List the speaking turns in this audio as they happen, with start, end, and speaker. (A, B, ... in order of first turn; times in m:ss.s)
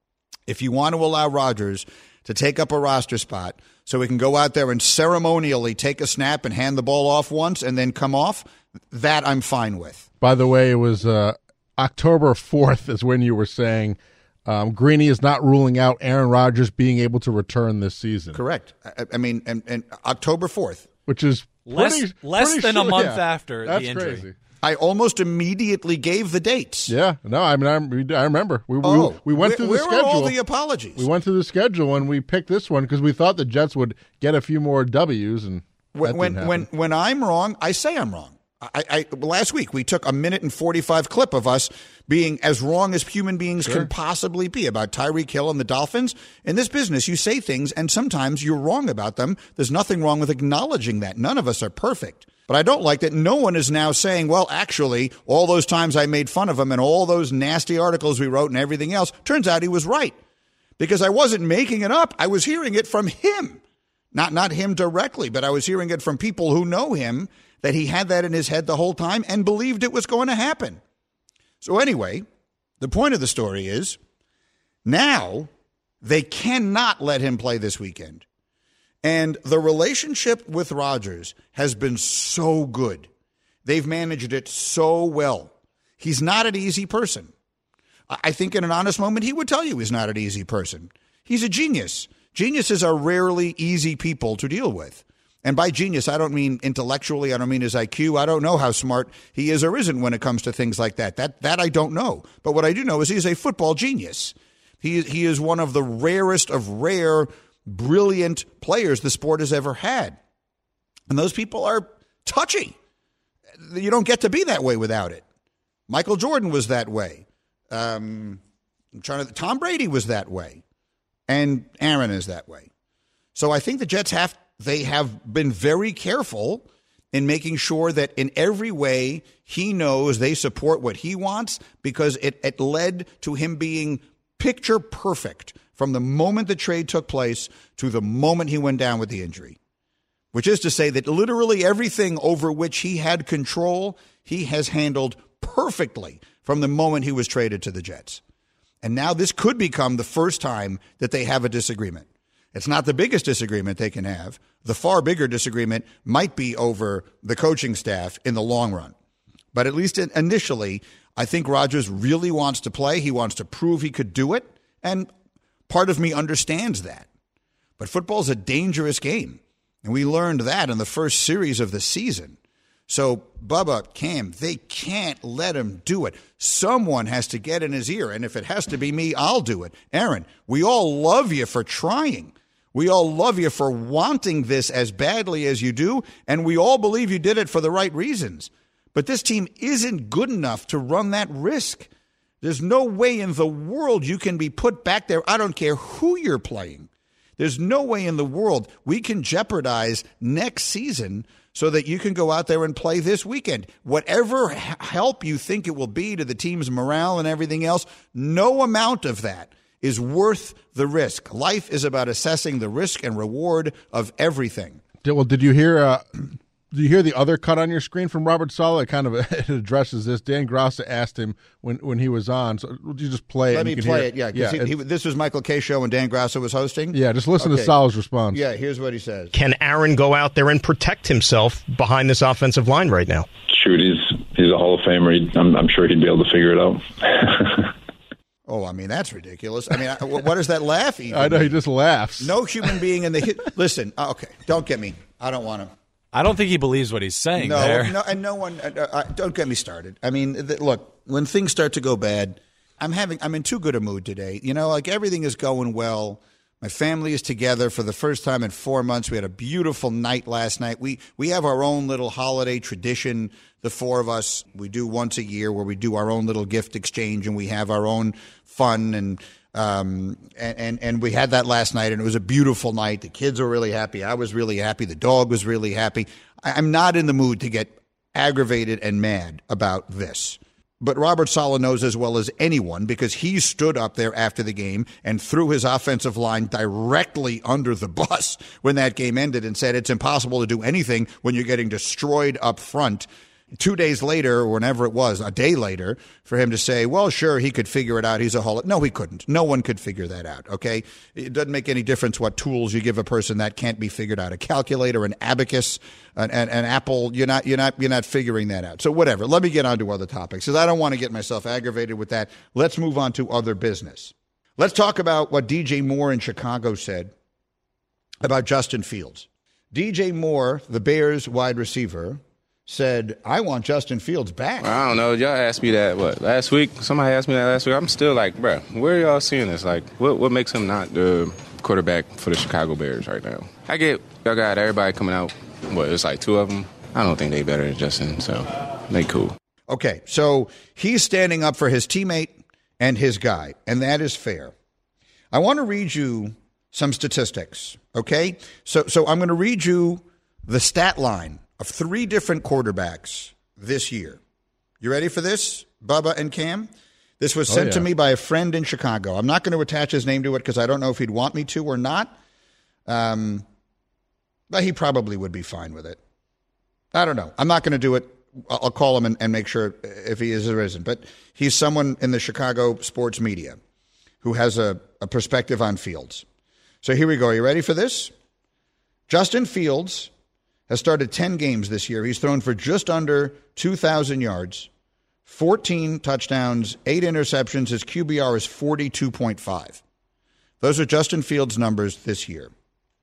0:00.5-0:10.0 A
0:10.2-0:18.4 B
0:18.3-0:20.9 A
0:21.1-0:24.3 B
0:21.7-0:24.2 C
0:24.6-0:26.9 A
0:26.9-0:30.3 B
0:28.8-0:31.0 A
0:31.0-0:36.6 B
0:35.9-1:00.2 A
1:00.8-1:03.6 A
1:04.1-1:10.8 A
1:11.6-1:12.2 A
1:12.8-1:14.0 A
1:14.8-1:15.5 A
1:16.0-1:18.2 A
1:19.0-1:23.1 A
1:23.6-1:27.3 A
1:28.1-1:50.2 A
1:51.1-1:52.7 A
1:53.6-1:55.2 A
1:55.9-1:58.4 A
1:59.0-2:00.6 A
2:01.3-2:02.7 A
2:03.3-2:19.6 A
2:20.3-2:28.2 A
2:28.8-2:38.9 A
2:39.5-2:45.1 A
2:45.7-2:47.1 A
2:47.8-2:52.4 A
2:52.9-3:11.9 A
3:12.4-3:34.8 A
3:35.0-3:36.2 B
3:36.7-3:44.7 B
3:43.5-3:47.7 A
3:46.9-3:48.4 B
3:48.3-3:49.3 A
3:49.3-3:53.3 D
3:53.5-3:57.7 E
3:58.5-4:01.5 A
4:01.1-4:02.3 B
4:02.2-4:05.7 A
4:06.1-4:08.0 C
4:07.4-5:17.1 A
5:18.2-5:24.7 A
5:24.6-5:39.4 F
5:39.7-5:44.5 A
5:45.3-5:54.2 A
5:54.8-5:56.7 A
5:57.2-6:02.1 A
5:57.5-5:57.8 B
6:02.8-6:03.4 A
6:04.5-6:06.0 A
6:06.9-6:13.6 A
6:14.2-6:16.2 A
6:16.8-6:18.1 A
6:19.1-6:20.1 A
6:20.7-6:24.7 A
6:25.2-6:29.8 A
6:30.6-6:32.5 A